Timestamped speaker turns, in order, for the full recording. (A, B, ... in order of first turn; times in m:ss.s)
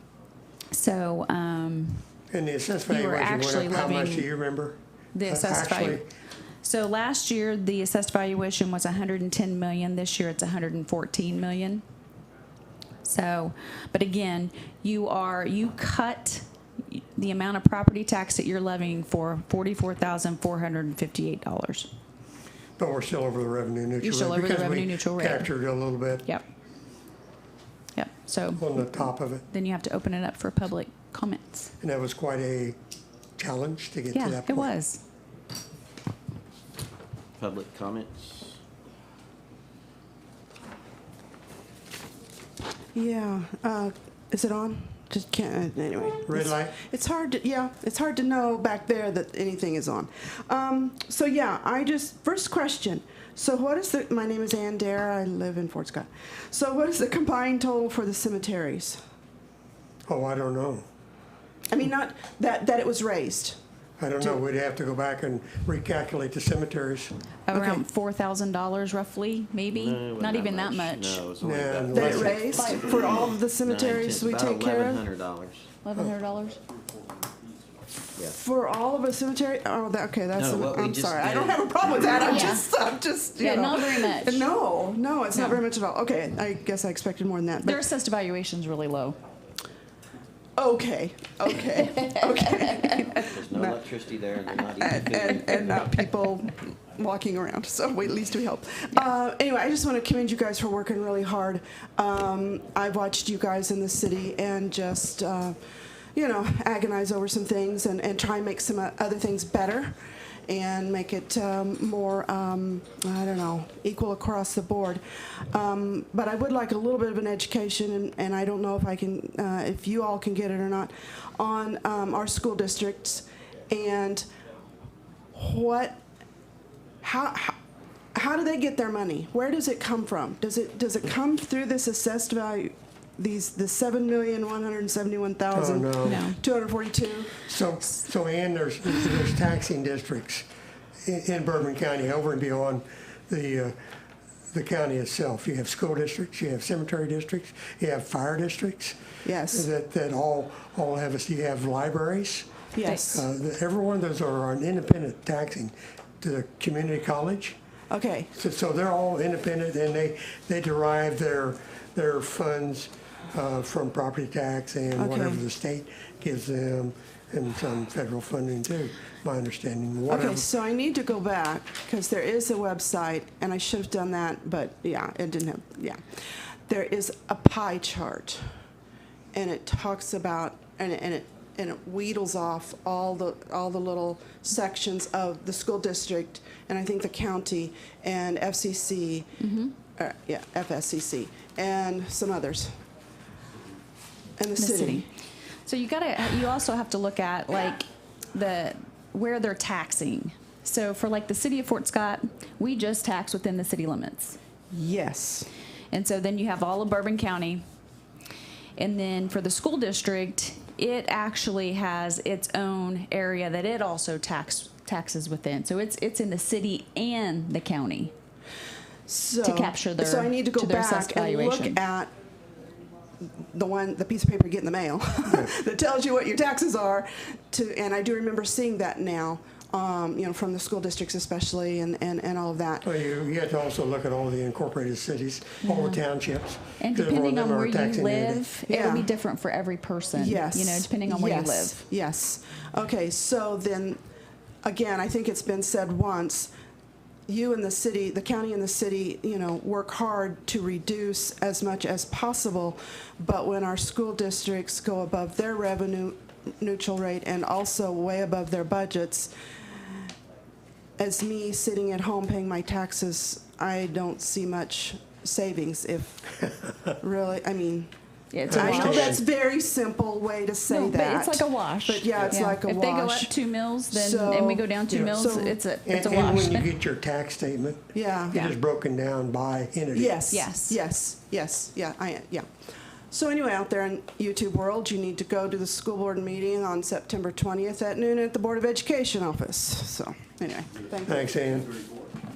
0:00.7-0:02.0 A
0:02.3-0:06.1 B
0:02.9-0:04.2 A
0:05.1-0:06.0 A
0:06.6-0:11.8 A
0:13.0-0:21.9 A
0:22.8-0:26.3 B
0:24.0-0:25.5 A
0:28.0-0:31.7 A
0:28.6-0:29.4 B
0:31.8-0:32.8 B
0:33.4-0:34.7 B
0:34.1-0:35.0 A
0:37.4-0:38.6 C
0:43.0-0:59.0 D
0:46.3-0:46.8 B
1:00.1-1:00.8 B
1:01.7-1:03.6 D
1:04.0-1:07.1 B
1:07.5-1:11.2 A
1:07.5-1:07.8 D
1:09.7-1:15.7 C
1:11.4-1:12.6 B
1:11.9-1:15.0 D
1:15.8-1:16.6 A
1:18.2-1:27.8 D
1:20.3-1:22.5 C
1:22.2-1:22.6 A
1:23.4-1:24.4 A
1:25.3-1:25.6 A
1:27.6-1:29.2 A
1:30.6-1:33.8 D
1:33.1-1:35.7 C
1:34.8-1:45.6 D
1:46.2-1:50.0 D
1:50.5-2:04.3 D
2:05.3-2:06.0 D
2:07.0-2:07.6 D
2:08.2-2:17.4 D
2:15.5-2:16.2 B
2:16.0-2:16.4 A
2:17.4-2:20.5 B
2:21.0-2:23.8 B
2:24.5-2:29.0 B
2:29.2-2:29.7 D
2:29.5-2:37.6 B
2:32.7-2:33.2 D
2:37.9-2:38.3 D
2:38.4-2:50.5 B
2:45.0-2:45.4 D
2:50.1-2:56.0 D
2:56.7-2:58.4 D
2:59.3-3:09.3 D
3:09.4-3:09.7 A
3:10.0-3:12.8 D
3:14.4-3:15.1 D
3:14.6-3:15.1 A
3:15.7-3:24.4 A
3:24.7-3:25.5 D
3:25.9-3:27.6 A
3:28.8-3:38.1 A
3:39.1-3:42.1 D
3:39.4-3:41.8 A
3:43.2-3:52.9 D
3:45.3-3:45.5 B
3:52.8-3:58.4 B
3:55.6-3:56.0 A
3:56.8-4:01.8 A
3:58.7-3:59.1 D
4:00.2-4:04.0 D
4:04.6-4:06.5 D
4:07.3-4:19.3 D
4:21.0-4:26.4 D
4:27.0-4:27.9 D
4:28.3-4:29.2 A
4:28.5-4:29.2 B
4:28.5-4:33.3 D
4:30.7-4:36.7 A
4:33.9-4:35.6 D
4:34.9-4:35.2 B
4:35.8-4:40.2 B
4:37.9-4:38.4 D
4:40.0-4:42.5 D
4:40.3-4:40.8 A
4:43.1-4:51.8 D
4:51.0-4:51.7 B